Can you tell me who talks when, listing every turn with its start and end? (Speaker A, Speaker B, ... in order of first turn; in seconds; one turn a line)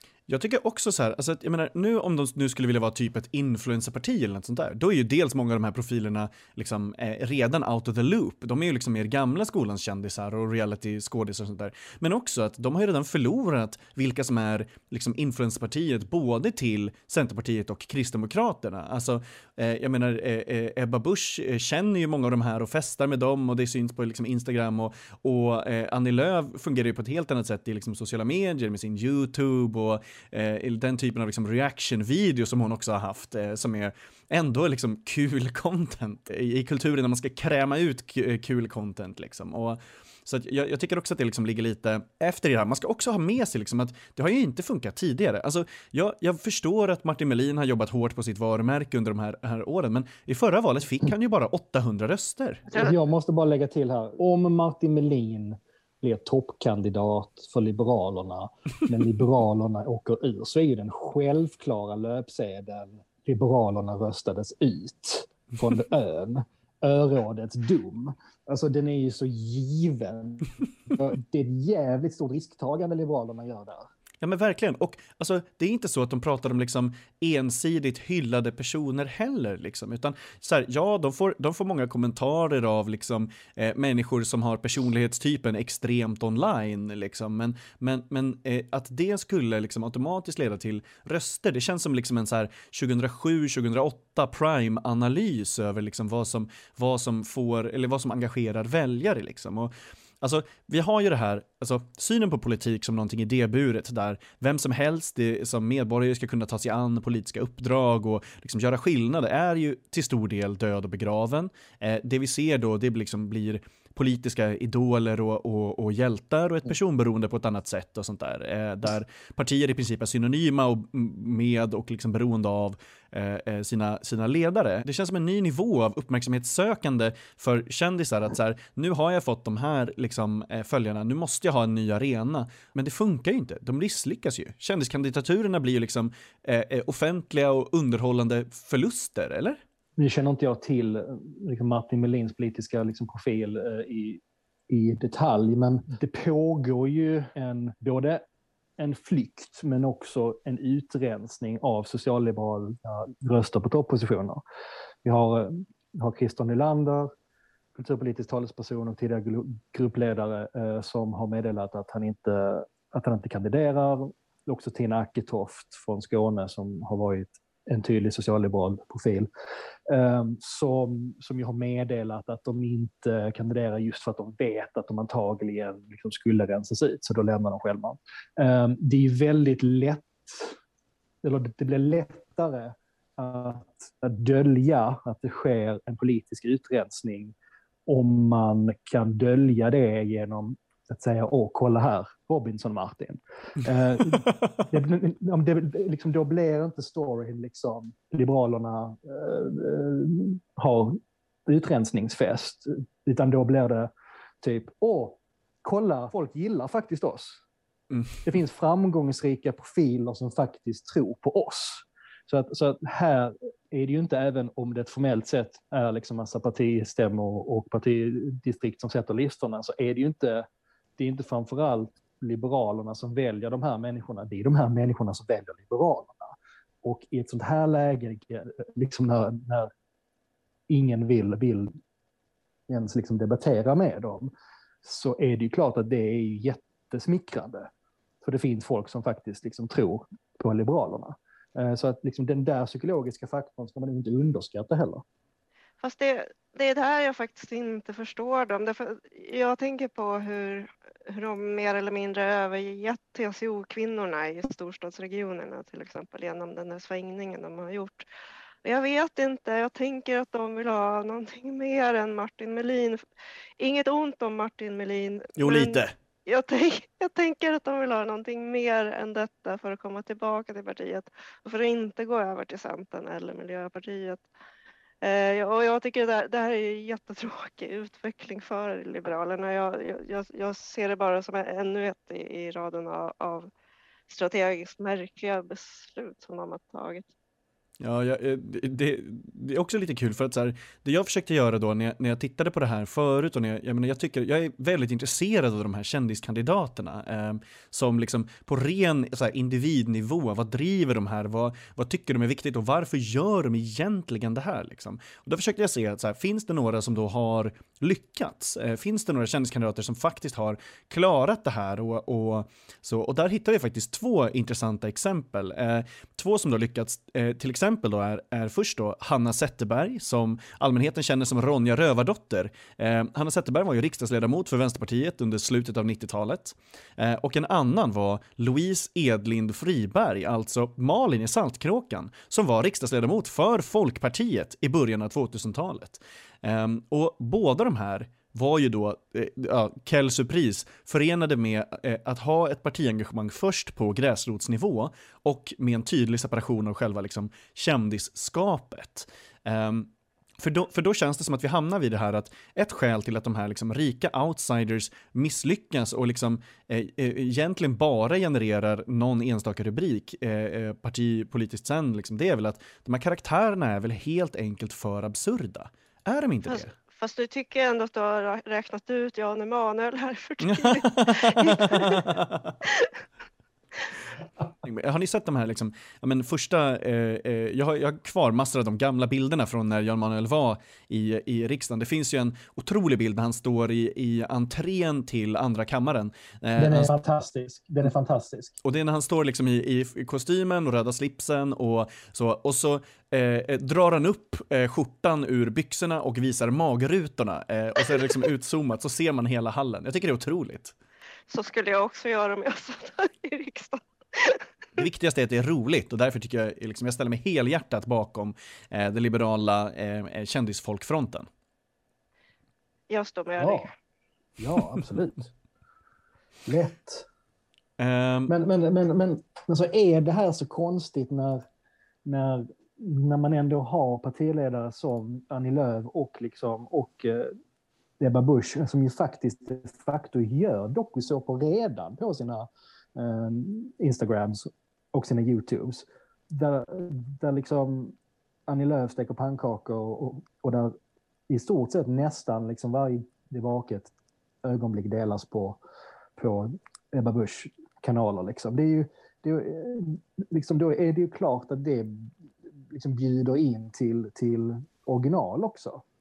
Speaker A: 0.3-52.7
Speaker B: 52.7-73.9
Speaker A: 74.2-139.6
Speaker B: 140.0-148.2
Speaker B: 148.8-154.4
Speaker B: 155.0-157.1
Speaker B: 157.7-169.3
Speaker B: 169.9-180.6
Speaker B: 181.2-187.3
Speaker B: 187.8-203.9
Speaker A: 194.2-194.6
Speaker B: 204.4-207.4
Speaker B: 208.2-229.7
Speaker B: 230.7-231.7
Speaker B: 232.7-237.7
Speaker B: 238.2-245.0
Speaker C: 245.8-258.0
Speaker C: 258.6-263.0
Speaker C: 263.6-274.2
Speaker A: 265.4-265.9
Speaker C: 275.0-283.5
Speaker C: 284.1-287.1
Speaker A: 287.8-366.7
Speaker C: 366.5-372.1
Speaker A: 370.4-372.6
Speaker C: 372.6-372.9
Speaker A: 374.6-386.9
Speaker B: 386.6-388.5
Speaker A: 388.6-400.7
Speaker C: 401.3-404.4
Speaker A: 404.8-411.3
Speaker C: 412.9-413.7
Speaker B: 413.4-413.7
Speaker B: 414.4-415.3
Speaker B: 416.4-417.1
Speaker A: 417.8-418.3
Speaker B: 418.3-421.4
Speaker B: 422.0-427.3
Speaker B: 428.0-437.9
Speaker B: 438.5-440.7
Speaker B: 441.3-445.6
Speaker B: 446.2-455.8